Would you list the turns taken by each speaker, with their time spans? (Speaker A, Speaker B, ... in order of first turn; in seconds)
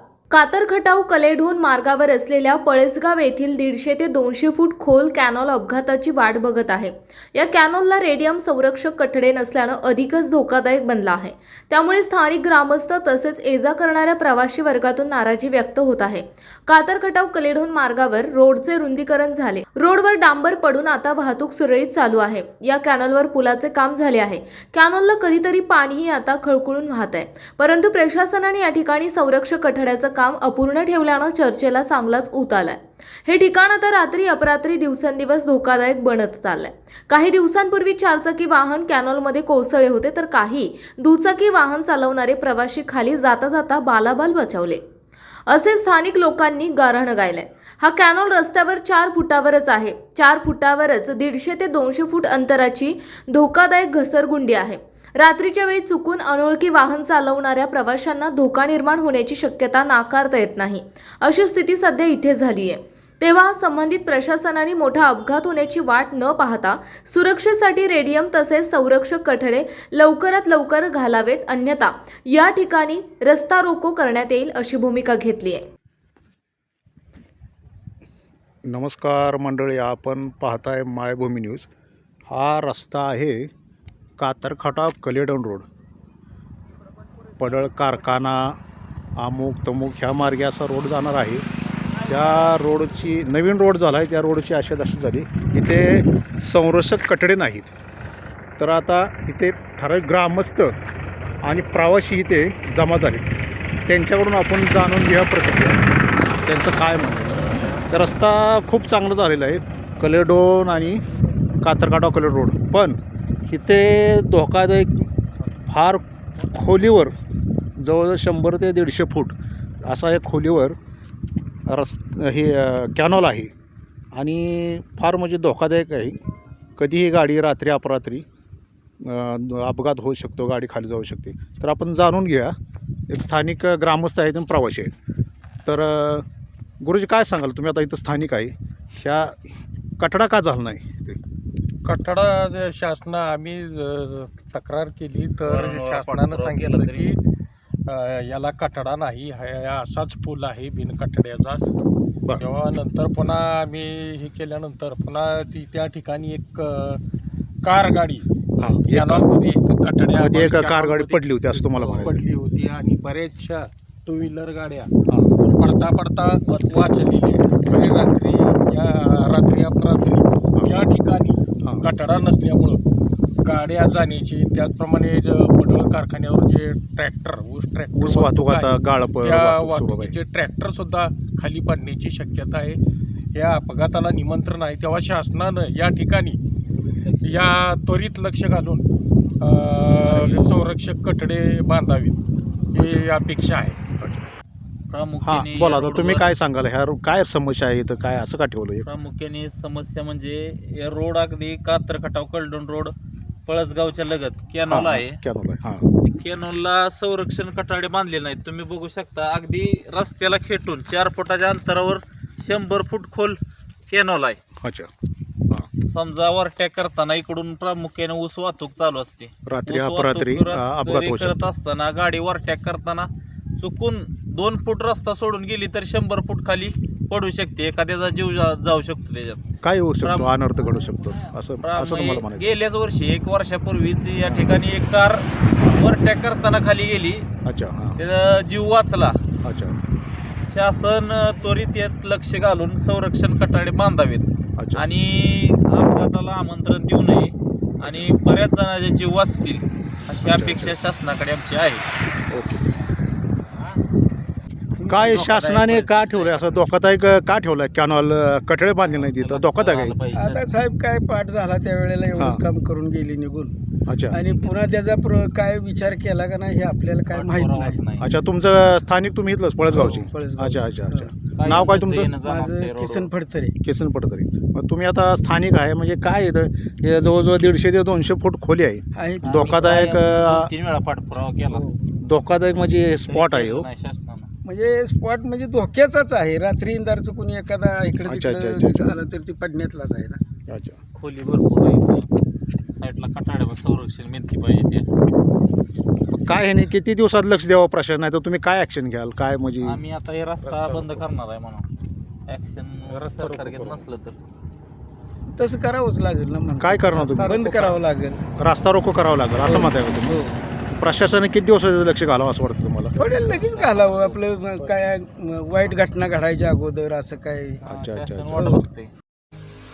Speaker A: 0.3-44.8, 45.5-75.6
Speaker B: 78.7-81.7, 82.3-83.5, 84.2-85.7, 87.4-88.6, 89.2-91.4, 92.0-97.7, 98.6-100.8, 101.4-103.3, 103.9-111.0, 111.6-115.1, 115.7-117.1, 117.8-120.8, 121.7-123.5, 124.1-126.2, 126.8-128.2, 129.0-132.6, 133.1-134.9, 135.6-136.2, 136.8-141.2, 158.6-159.3, 160.2-162.2, 167.7-168.0, 177.9-180.1, 194.0-194.3, 195.2-198.8, 204.7-205.8, 214.6-214.9, 219.4-221.5, 229.6-232.5, 234.2-234.6, 235.6-235.8, 237.4-238.0, 239.4-239.8, 244.6-244.8, 247.8-248.1, 250.2-250.8, 252.3-252.7, 254.9-260.0, 263.9-264.2, 268.0-272.1, 273.6-280.5, 282.0-283.7, 288.0-288.8, 290.5-290.8, 296.1-299.8, 306.6-307.4, 308.4-313.0, 317.6-318.6
Speaker C: 141.8-147.2, 147.9-151.6, 152.4-157.0, 157.6-158.2, 158.9-172.8, 173.4-182.8, 183.3-186.4, 187.2-188.8, 189.4-192.2, 192.7-193.8, 300.4-301.0, 302.9-303.8, 307.0-307.8
Speaker D: 145.5-147.1, 166.5-167.0, 186.8-187.5, 190.1-190.4, 194.9-196.3, 198.8-202.9, 203.5-205.2, 206.0-214.4, 215.8-229.4, 230.0-230.4, 231.6-237.3, 238.0-239.2, 240.5-251.8, 255.0-256.6, 258.8-260.5, 267.1-268.1, 271.4-273.1, 279.2-281.7, 283.1-284.3, 290.9-292.1, 292.8-294.9, 299.6-301.7, 302.3-304.2, 313.0-314.8, 317.6-318.9
Speaker E: 254.8-255.2, 260.1-263.5, 264.1-267.8, 269.7-271.1, 272.2-273.5, 278.9-279.9, 281.5-281.8, 284.4-290.2, 305.3-308.2, 309.4-310.4, 312.9-317.6